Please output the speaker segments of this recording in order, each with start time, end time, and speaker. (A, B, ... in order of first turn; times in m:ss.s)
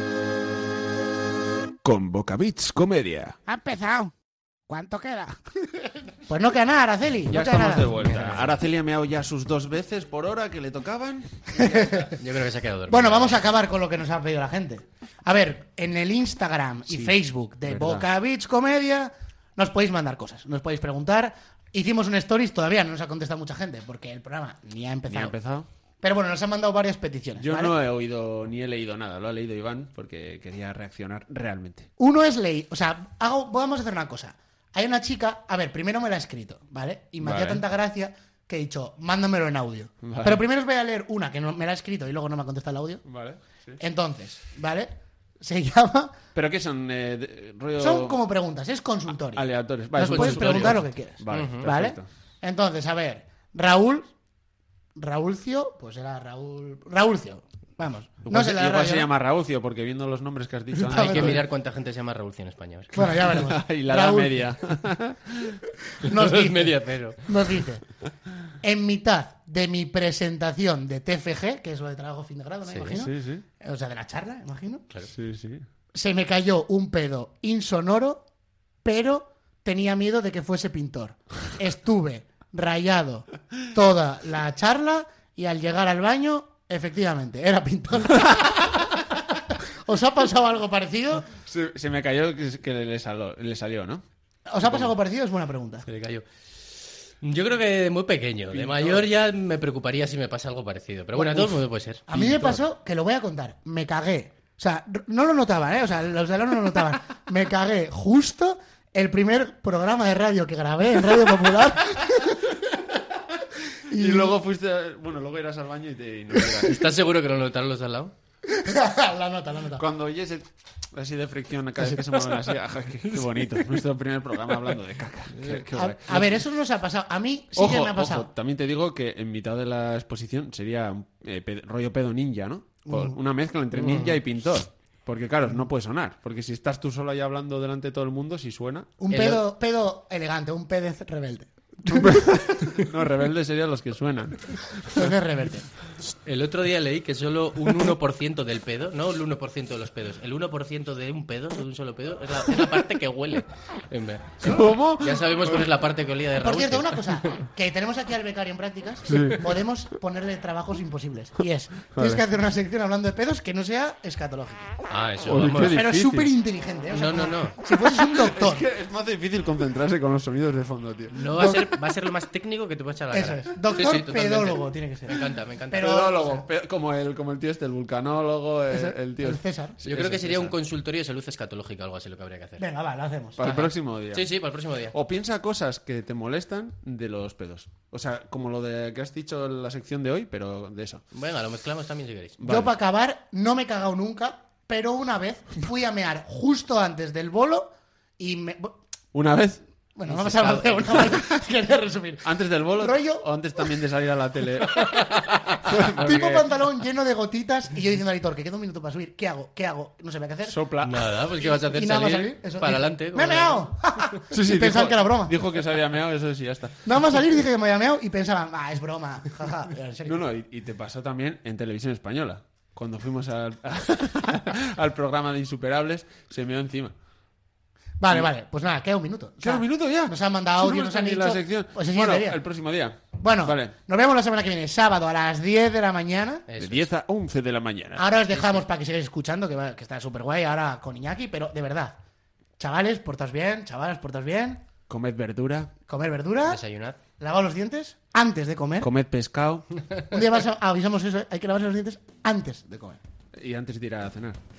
0:01.8-0:03.4 A
0:03.4-0:04.1 B
0:04.7-0:05.4 B
0:06.2-0:08.0 B
0:07.3-0:12.1 A
0:08.0-0:08.4 C
0:11.5-0:12.1 B
0:12.1-0:13.5 C
0:12.9-0:25.3 B
0:16.9-0:17.1 A
0:17.6-0:18.1 A
0:25.1-0:25.7 A
0:26.0-0:27.8 B
0:27.4-0:31.9 A
0:32.0-0:43.0 B
0:37.2-0:37.6 A
0:40.0-0:40.4 A
0:43.0-0:43.8 A
0:43.8-0:46.2 B
0:46.3-0:48.2 A
0:47.8-0:54.1 B
0:49.3-0:52.0 A
0:50.0-0:50.8 C
0:51.3-0:51.7 C
0:55.0-0:59.1 B
0:58.3-1:01.4 A
1:00.7-1:01.4 B
1:00.9-1:03.0 C
1:02.9-1:04.5 B
1:03.2-1:05.6 A
1:06.0-1:07.8 B
1:06.0-1:07.2 C
1:08.6-1:14.8 B
1:12.6-1:13.0 C
1:12.9-1:13.4 A
1:15.1-1:15.6 A
1:15.9-1:18.2 B
1:18.8-1:28.9 B
1:29.8-1:31.3 B
1:31.5-1:34.0 A
1:34.5-1:35.8 B
1:35.8-1:36.2 C
1:37.2-1:42.2 C
1:38.6-1:39.0 A
1:41.1-1:52.4 B
1:53.9-1:54.4 B
1:53.9-1:56.8 A
1:56.6-1:58.1 C
1:58.4-1:59.8 B
1:59.8-2:06.4 A
2:05.7-2:08.3 B
2:07.6-2:18.9 A
2:12.9-2:13.2 B
2:13.8-2:14.1 C
2:19.0-2:22.8 B
2:19.1-2:19.4 C
2:21.9-2:25.1 A
2:25.0-2:25.7 B
2:26.2-2:34.4 C
2:34.4-2:35.7 A
2:34.4-2:34.7 B
2:35.0-2:37.1 C
2:36.4-2:44.7 B
2:39.1-2:39.5 A
2:41.9-2:42.2 A
2:44.9-2:45.8 C
2:45.3-2:46.3 A
2:45.5-2:48.7 B
2:46.9-2:47.6 C
2:48.1-2:51.5 A
2:51.1-2:55.8 C
2:53.1-2:56.4 B
2:55.7-3:00.5 A
2:58.7-2:59.8 B
2:59.8-3:02.6 C
3:02.6-3:03.4 B
3:03.4-3:04.4 A
3:03.4-3:04.9 C
3:04.9-3:11.0 A
3:11.1-3:12.4 C
3:12.4-3:12.7 A
3:12.4-3:18.8 B
3:19.1-3:19.6 A
3:20.0-3:23.3 B
3:20.1-3:21.0 C
3:22.2-3:26.5 A
3:25.7-3:30.6 B
3:30.4-3:31.1 A
3:30.8-3:33.7 C
3:31.2-3:35.5 B
3:34.3-3:36.9 A
3:36.8-3:40.2 B
3:40.0-3:46.9 A
3:48.0-3:52.4 B
3:49.4-3:53.7 A
3:53.2-3:56.4 B
3:56.5-3:56.9 C
3:56.6-3:58.1 A
3:57.9-4:02.0 B
4:02.6-4:04.6 B
4:04.9-4:05.7 A
4:05.9-4:06.6 B
4:06.4-4:07.0 C
4:07.2-4:08.9 B
4:08.8-4:09.7 A
4:10.1-4:13.0 B
4:13.3-4:14.4 A